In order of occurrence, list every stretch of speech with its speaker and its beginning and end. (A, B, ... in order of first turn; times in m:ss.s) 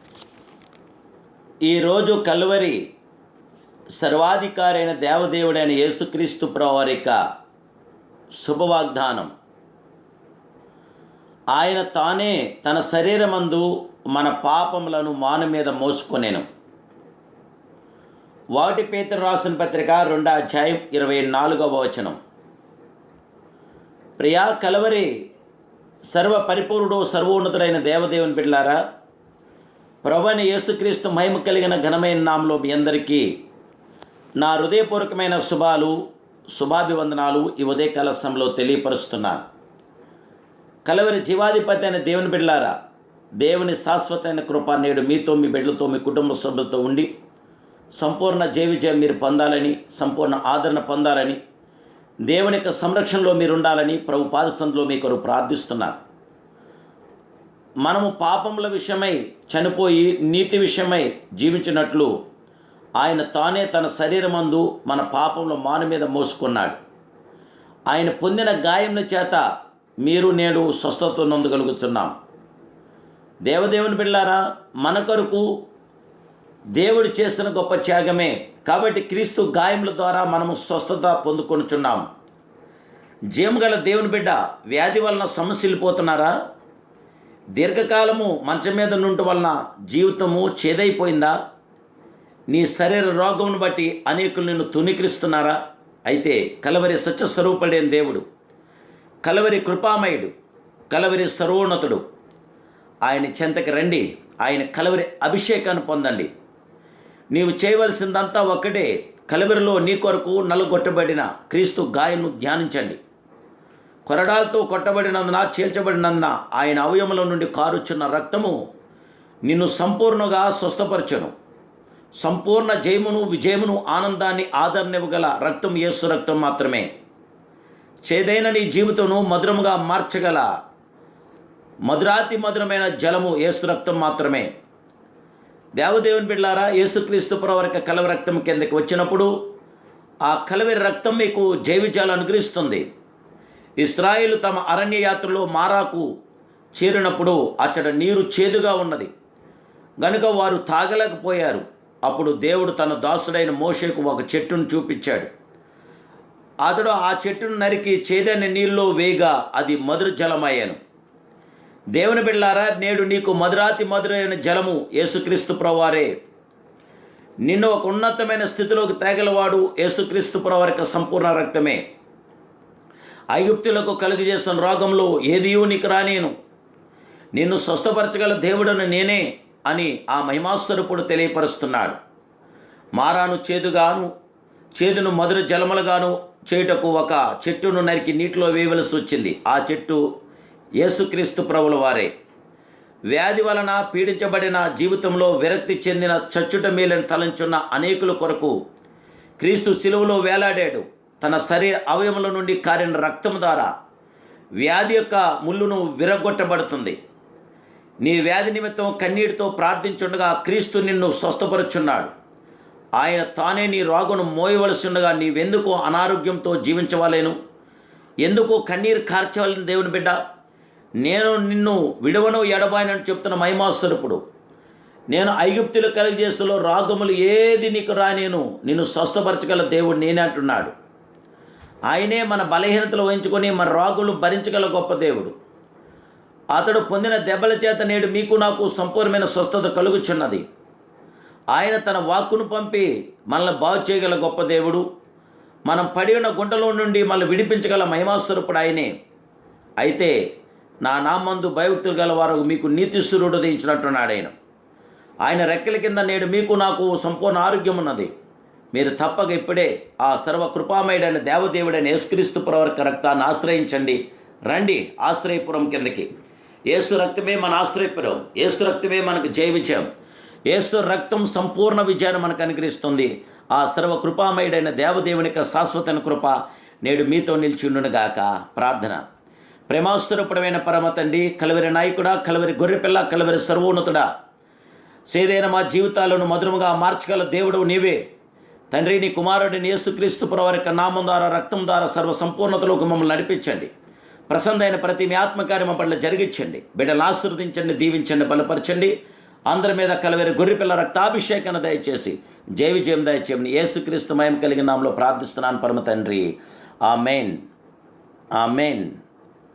0:01.6-0:02.8 A
0:03.9-0:07.2 A
0:08.3-0:09.3 A
0:11.5-0:16.4 A
0:18.6-0:22.2 A
0:24.2-0:25.1 A
0:26.1-0:28.8 A
0:30.0-0:33.3 A
0:34.4-0:36.0 A
0:36.5-0:39.4 A
0:40.8-0:42.7 A
0:43.4-0:47.1 A
0:47.9-0:51.4 A
0:52.3-0:56.0 A
0:57.8-1:02.1 A
1:03.0-1:06.8 A
1:07.9-1:09.4 A
1:10.0-1:12.1 A
1:13.4-1:15.5 A
1:16.8-1:22.0 A
1:23.3-1:26.3 A
1:27.6-1:31.3 A
1:32.5-1:38.2 A
1:39.2-1:40.3 A
1:40.9-1:42.0 A
1:43.0-1:46.3 A
1:47.3-1:53.0 A
1:54.0-1:58.6 A
1:59.4-2:01.3 A
2:02.2-2:06.9 A
2:08.0-2:10.5 A
2:11.8-2:14.5 A
2:15.8-2:19.3 A
2:20.2-2:22.8 A
2:23.8-2:26.0 A
2:26.7-2:29.1 A
2:30.0-2:35.3 A
2:36.6-2:40.8 A
2:41.9-2:46.1 A
2:47.4-2:51.8 A
2:53.3-2:56.3 A
2:57.4-3:02.0 A
3:03.0-3:04.1 A
3:04.8-3:10.0 A
3:10.8-3:12.1 A
3:13.1-3:18.6 A
3:19.4-3:23.7 A
3:24.6-3:27.0 A
3:28.0-3:32.1 A
3:33.0-3:37.4 A
3:38.2-3:40.2 A
3:41.0-3:44.2 A
3:45.1-3:50.7 A
3:51.9-3:55.3 A
3:56.5-4:00.4 A
4:01.5-4:04.8 A
4:05.7-4:08.9 A
4:09.8-4:10.1 A
4:10.8-4:14.3 A
4:15.2-4:18.1 A
4:18.7-4:26.1 A
4:26.7-4:29.9 A
4:30.5-4:39.0 A
4:39.7-4:44.1 A
4:45.1-4:48.0 A
4:48.7-4:53.7 A
4:54.3-4:58.9 A
4:59.5-5:07.4 A
5:08.3-5:09.0 A